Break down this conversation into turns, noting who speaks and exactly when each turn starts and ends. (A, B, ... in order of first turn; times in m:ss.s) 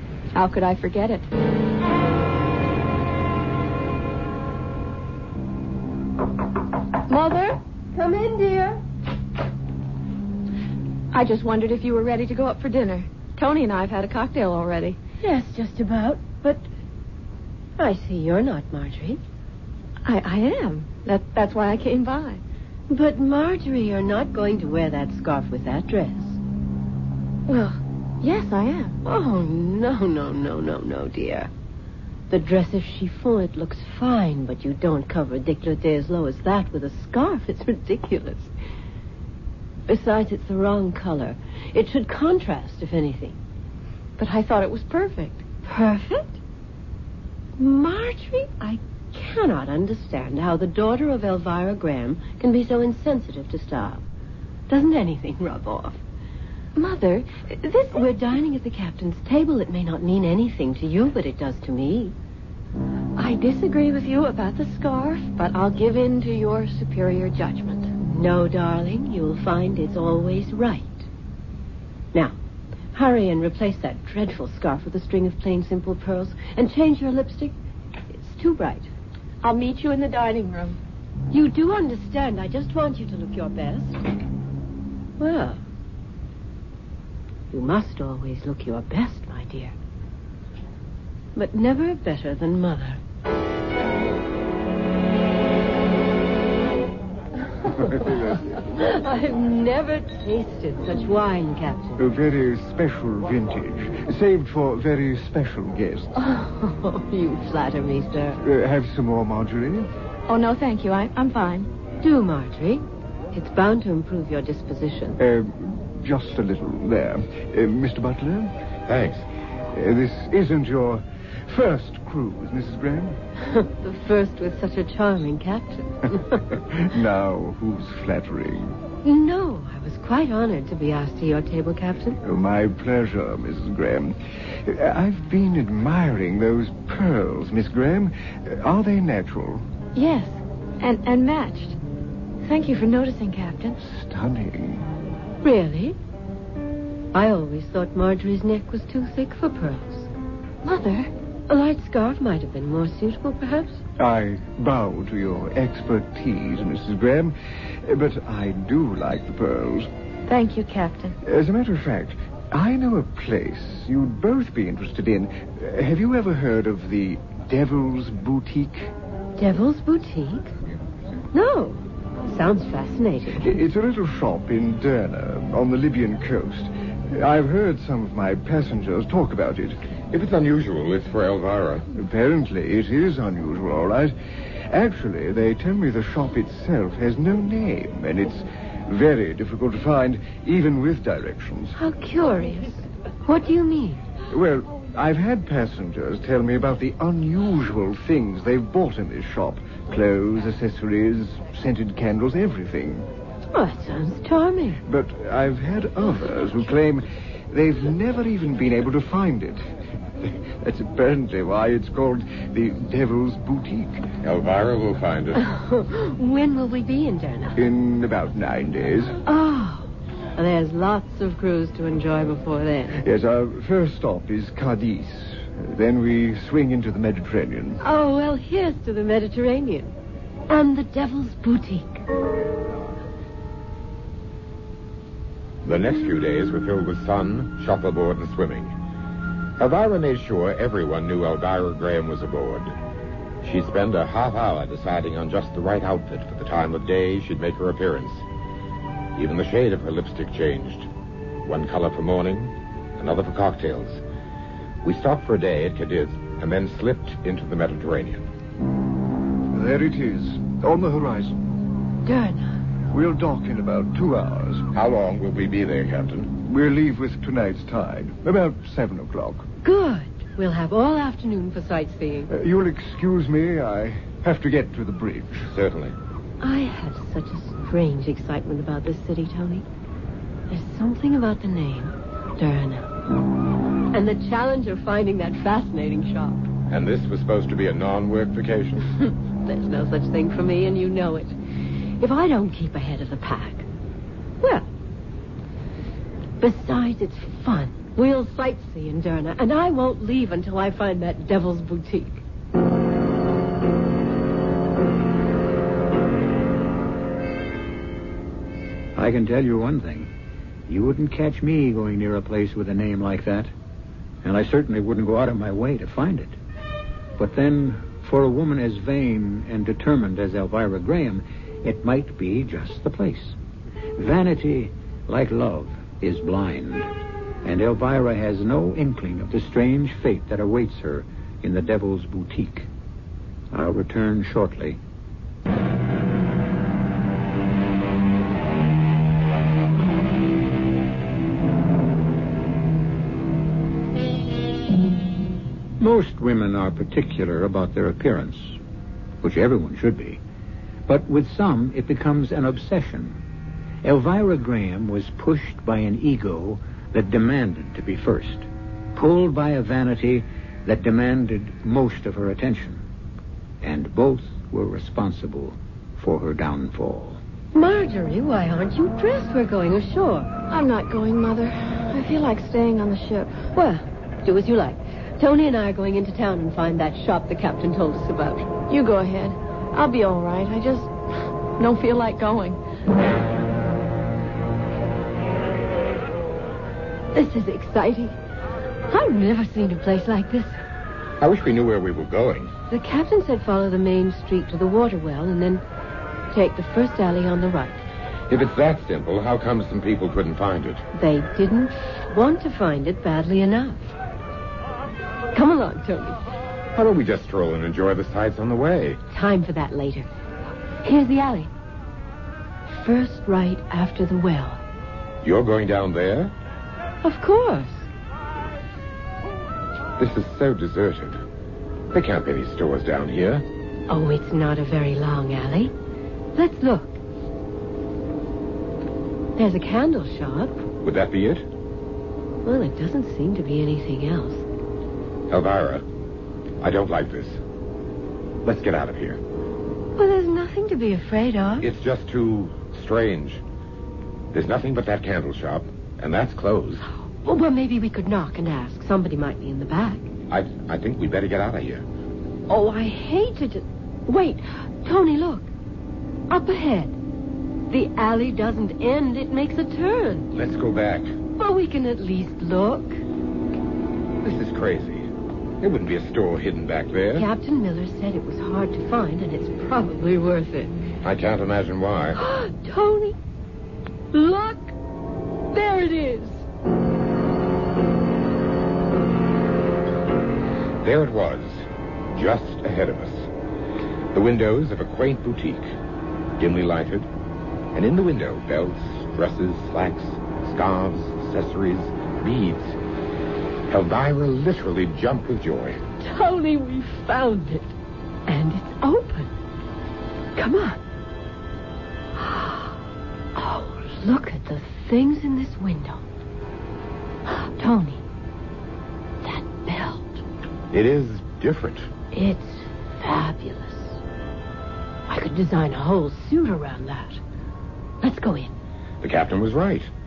0:00.3-0:01.3 A
0:07.1-0:07.6 A
0:07.9-0:08.8 B
0:11.1-0:15.0 A
0:15.2-0:16.6 B
0:17.8-0:19.2 B
0:20.0-0:22.4 A
0:22.9-0:26.4 B
0:27.5-0:28.9 A
0:29.0-0:31.5 B
0:32.3-0:38.5 B
0:39.9-0:43.4 B
0:44.2-0:45.4 A
0:45.6-0:46.4 B
0:47.6-0:54.0 B
0:54.7-0:56.0 B
0:56.8-0:58.1 A
0:57.9-1:02.1 B
1:03.2-1:07.9 A
1:08.0-1:11.0 B
1:12.9-1:17.5 B
1:18.1-1:18.9 B
1:19.4-1:20.8 A
1:21.3-1:24.0 B
1:25.2-1:25.6 B
1:27.5-1:29.7 B
1:31.3-1:33.0 B
1:37.6-1:42.0 B
1:37.8-1:38.5 C
1:42.0-1:46.1 C
1:46.2-1:48.4 B
1:48.4-1:49.9 C
1:50.3-1:51.7 A
1:52.0-1:55.2 B
1:55.2-1:58.5 C
1:58.9-1:59.2 D
1:59.7-2:03.2 C
2:03.4-2:06.4 B
2:06.5-2:08.8 C
2:09.0-2:12.2 B
2:12.2-2:19.6 C
2:19.9-2:21.8 A
2:22.4-2:23.8 A
2:23.8-2:24.9 C
2:25.4-2:26.0 B
2:27.1-2:30.1 B
2:30.6-2:31.1 A
2:31.5-2:33.8 B
2:34.0-2:39.9 C
2:40.3-2:41.2 A
2:41.2-2:48.9 C
2:49.4-2:50.5 B
2:51.3-2:53.6 B
2:53.4-2:59.8 C
3:00.1-3:01.8 D
3:01.9-3:04.1 C
3:04.7-3:11.8 C
3:11.8-3:14.0 B
3:14.3-3:23.1 C
3:23.5-3:24.8 B
3:24.8-3:29.6 C
3:30.2-3:34.1 C
3:34.2-3:35.4 D
3:35.4-3:37.6 B
3:37.6-3:39.2 C
3:39.2-3:43.0 B
3:42.9-3:47.8 C
3:47.8-3:49.9 B
3:50.5-3:52.0 B
3:55.6-3:58.7 D
3:59.6-4:02.7 D
4:03.4-4:08.2 D
4:09.2-4:10.9 D
4:11.4-4:14.0 D
4:14.8-4:18.2 D
4:19.5-4:21.4 C
4:22.0-4:22.5 B
4:22.9-4:24.7 C
4:24.7-4:26.3 D
4:26.4-4:29.5 C
4:29.6-4:32.3 B
4:32.3-4:35.5 C
4:35.5-4:35.9 D
4:36.4-4:39.6 B
4:40.5-4:42.9 B
4:43.9-4:46.5 B
4:46.7-4:48.9 D
4:49.4-4:51.3 B
4:52.0-4:53.7 B
4:54.4-4:54.7 B
4:56.4-5:02.2 B
5:09.0-5:10.1 E
5:10.7-5:13.5 E
5:14.2-5:16.4 E
5:17.2-5:23.4 E
5:24.0-5:26.9 E
5:27.4-5:32.7 E
5:33.5-5:34.8 E
5:45.8-5:48.6 E
5:49.2-5:50.2 E
5:50.9-5:53.2 E
5:53.8-6:02.8 E
6:03.6-6:07.2 E
6:07.5-6:10.3 B
6:10.5-6:13.4 A
6:13.5-6:18.5 B
6:18.7-6:20.9 A
6:21.6-6:22.6 A
6:27.1-6:28.1 B
6:28.9-6:30.6 B
6:31.2-6:32.5 D
6:32.7-6:35.6 B
6:36.3-6:37.8 B
6:38.3-6:40.8 D
6:40.9-6:43.9 B
6:45.3-6:46.2 B
6:46.7-6:49.0 D
6:49.1-6:50.1 B
6:50.8-6:51.5 B
6:52.7-6:54.6 B
6:55.2-6:56.3 D
6:57.0-6:57.9 B
7:00.0-7:01.2 D
7:01.9-7:03.4 D
7:03.9-7:05.7 B
7:06.3-7:07.0 B
7:09.4-7:10.6 B
7:10.8-7:11.4 D
7:12.4-7:14.4 B
7:15.3-7:15.8 D
7:16.6-7:17.4 D
7:18.4-7:19.2 D
7:20.0-7:21.7 B
7:21.6-7:23.4 D
7:24.3-7:26.8 D
7:27.2-7:30.1 B
7:30.3-7:31.8 D
7:32.5-7:35.5 B
7:36.3-7:36.9 B
7:37.7-7:40.3 B
7:40.3-7:41.1 D
7:41.4-7:43.0 B
7:44.2-7:45.1 D
7:45.6-7:47.3 D
7:47.1-7:50.7 B
7:51.0-7:52.2 D
7:52.1-7:53.2 B
7:54.1-7:54.7 B
7:55.5-7:56.4 B
8:00.8-8:03.3 D
8:04.1-8:05.7 D
8:06.4-8:07.1 D
8:07.7-8:12.8 D
8:13.7-8:15.8 D
8:16.0-8:17.7 B
8:18.3-8:19.3 B
8:20.4-8:20.8 B
8:22.2-8:22.7 B
8:23.3-8:26.0 B
8:27.2-8:28.0 B
8:29.2-8:30.2 B
8:30.7-8:31.9 D
8:32.1-8:34.0 B
8:35.1-8:37.2 B
8:38.0-8:38.5 B
8:39.0-8:39.9 D